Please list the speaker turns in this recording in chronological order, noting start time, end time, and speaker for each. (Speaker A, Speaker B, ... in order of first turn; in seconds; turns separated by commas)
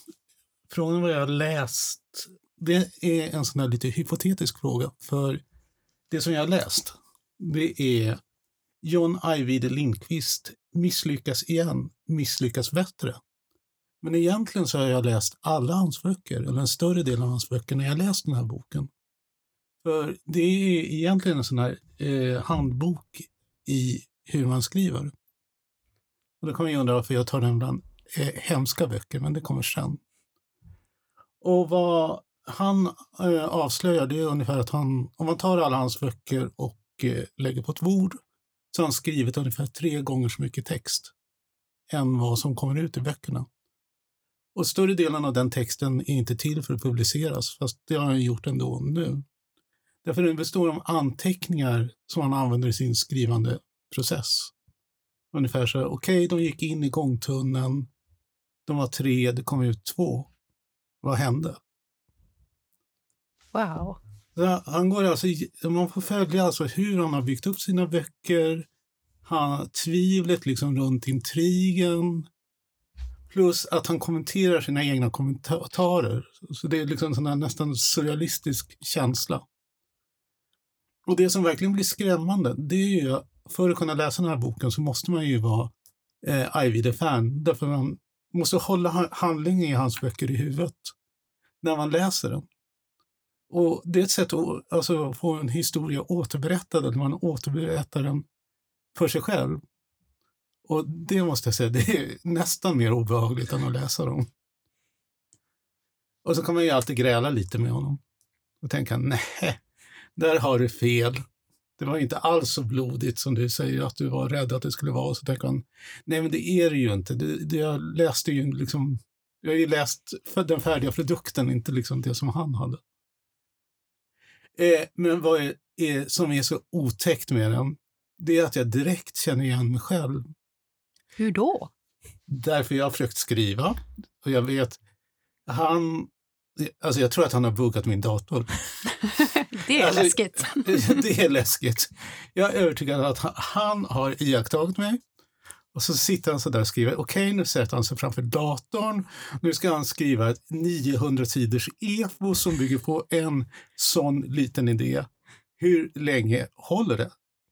Speaker A: 0.7-5.4, Speaker A: 6.1-8.2, Speaker A: 8.8-13.2, Speaker A: 14.0-18.9, Speaker A: 19.8-25.1, Speaker A: 26.4-30.0, Speaker A: 31.4-38.2, Speaker A: 38.7-41.1, Speaker A: 41.9-43.5, Speaker A: 44.5-49.2, Speaker A: 50.0-54.5, Speaker A: 55.3-57.9, Speaker A: 58.6-60.3, Speaker A: 61.0-61.6, Speaker B: 63.5-64.0, Speaker A: 64.3-68.7, Speaker A: 69.2-72.2, Speaker A: 73.3-79.4, Speaker A: 81.0-85.7, Speaker A: 86.2-90.9, Speaker A: 91.6-92.5, Speaker A: 93.5-98.2, Speaker A: 98.9-99.6, Speaker A: 100.6-104.3, Speaker A: 106.2-108.0, Speaker A: 108.6-109.6, Speaker A: 110.2-111.2, Speaker A: 111.8-122.8, Speaker A: 124.5-130.3, Speaker B: 131.2-131.7, Speaker A: 132.3-134.8, Speaker A: 135.5-138.6, Speaker B: 139.2-141.0, Speaker A: 139.8-145.0, Speaker A: 145.7-155.1, Speaker A: 155.6-157.1